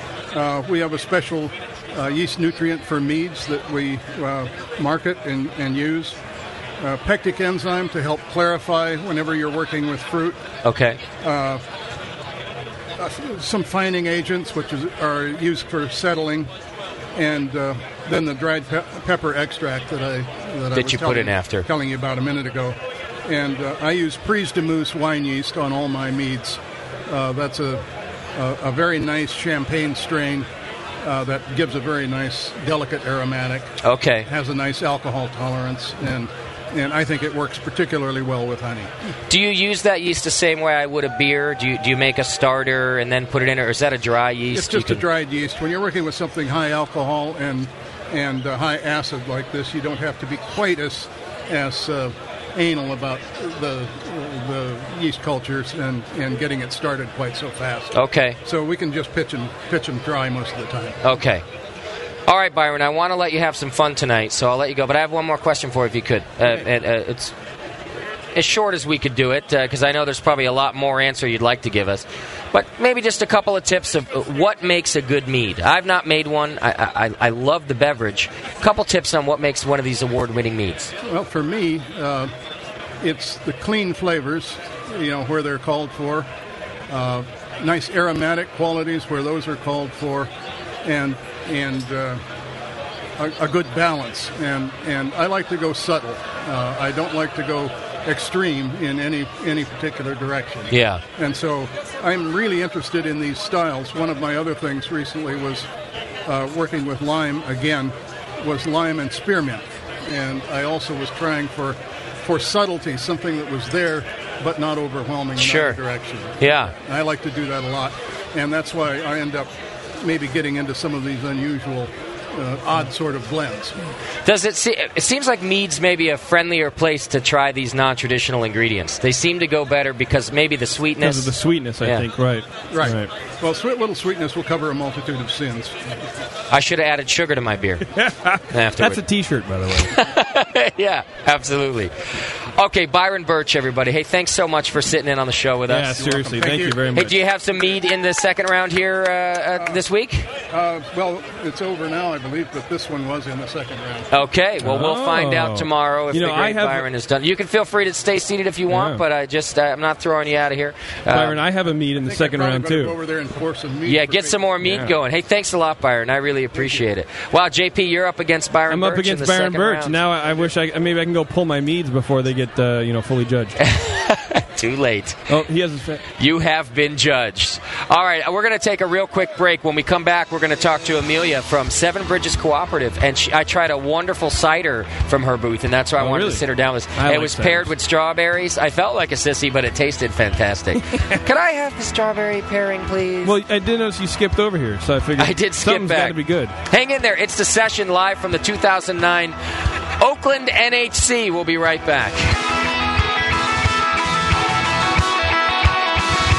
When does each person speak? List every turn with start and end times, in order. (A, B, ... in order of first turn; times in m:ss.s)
0:00.3-0:06.2 A
0:06.8-0:10.4 A
0:10.6-0:11.0 B
0:11.2-0:11.6 A
0:13.0-0:16.5 A
0:17.2-0:27.8 A
0:20.7-0:21.7 B
0:28.4-0:30.5 A
0:31.0-0:33.7 A
0:33.8-0:34.3 B
0:34.3-0:38.9 A
0:39.3-0:45.0 B
0:44.5-0:57.9 A
0:57.9-0:58.4 B
0:58.4-1:01.0 A
1:01.0-1:01.4 B
1:02.3-1:07.3 B
1:08.4-1:20.9 B
1:21.0-1:22.3 A
1:23.0-1:26.3 A
1:26.9-1:30.3 A
1:30.8-1:32.2 A
1:33.2-1:45.7 A
1:40.7-1:41.0 B
1:46.3-2:03.8 A
1:55.4-1:55.8 B
1:56.4-1:56.7 B
2:04.2-2:12.1 B
2:11.0-2:13.1 C
2:12.7-2:15.8 A
2:16.5-2:17.8 B
2:17.9-2:20.0 C
2:18.5-2:19.0 B
2:19.9-2:21.9 B
2:22.6-2:26.1 B
2:25.7-2:27.2 C
2:26.0-2:26.8 A
2:26.9-2:30.3 B
2:30.5-2:34.1 A
2:34.1-2:41.4 B
2:34.6-2:36.9 C
2:38.7-2:39.0 C
2:41.1-2:43.0 C
2:42.0-2:44.5 A
2:43.8-2:50.0 B
2:44.6-2:45.0 C
2:48.7-2:53.6 C
2:53.6-2:55.2 B
2:55.3-2:56.0 C
2:56.2-3:13.4 B
3:06.0-3:06.4 C
3:07.0-3:07.7 C
3:13.2-3:16.6 C
3:15.2-3:19.4 B
3:20.0-3:22.4 B